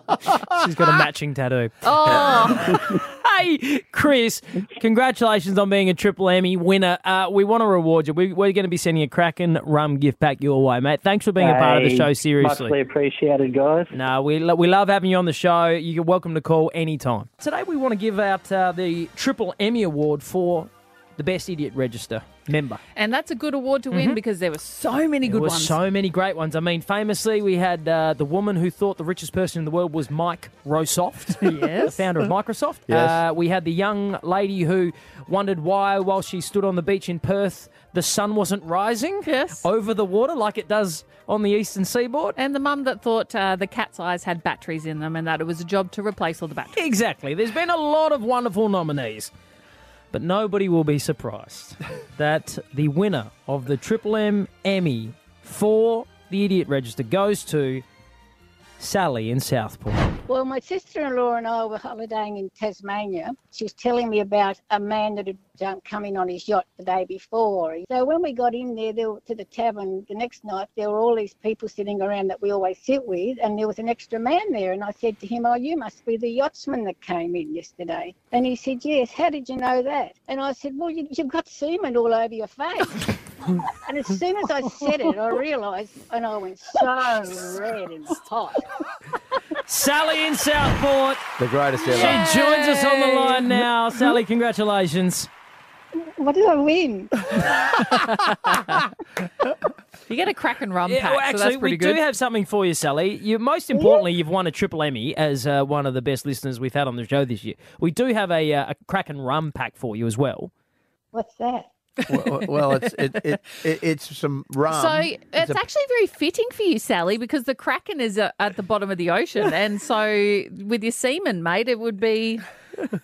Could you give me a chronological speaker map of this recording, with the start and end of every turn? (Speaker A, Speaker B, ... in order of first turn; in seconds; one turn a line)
Speaker A: 0.5-12.8
Speaker B: 1.8-2.7
Speaker C: 11.4-13.9
Speaker A: 13.9-22.8
Speaker B: 22.9-25.8
Speaker A: 23.9-24.2
Speaker A: 25.2-42.4
Speaker B: 31.4-32.0
Speaker D: 32.9-33.2
Speaker B: 39.2-39.6
Speaker B: 42.4-46.8
Speaker A: 46.8-49.3
Speaker A: 50.1-57.8
Speaker A: 58.8-60.1
Speaker E: 60.3-88.7
Speaker A: 89.7-91.2
Speaker D: 91.4-92.2
Speaker A: 91.9-95.3
Speaker E: 96.1-97.8
Speaker B: 100.1-102.0
Speaker A: 100.8-110.5
Speaker E: 103.7-104.0
Speaker E: 111.1-111.7
Speaker D: 112.1-115.6
Speaker B: 114.7-122.5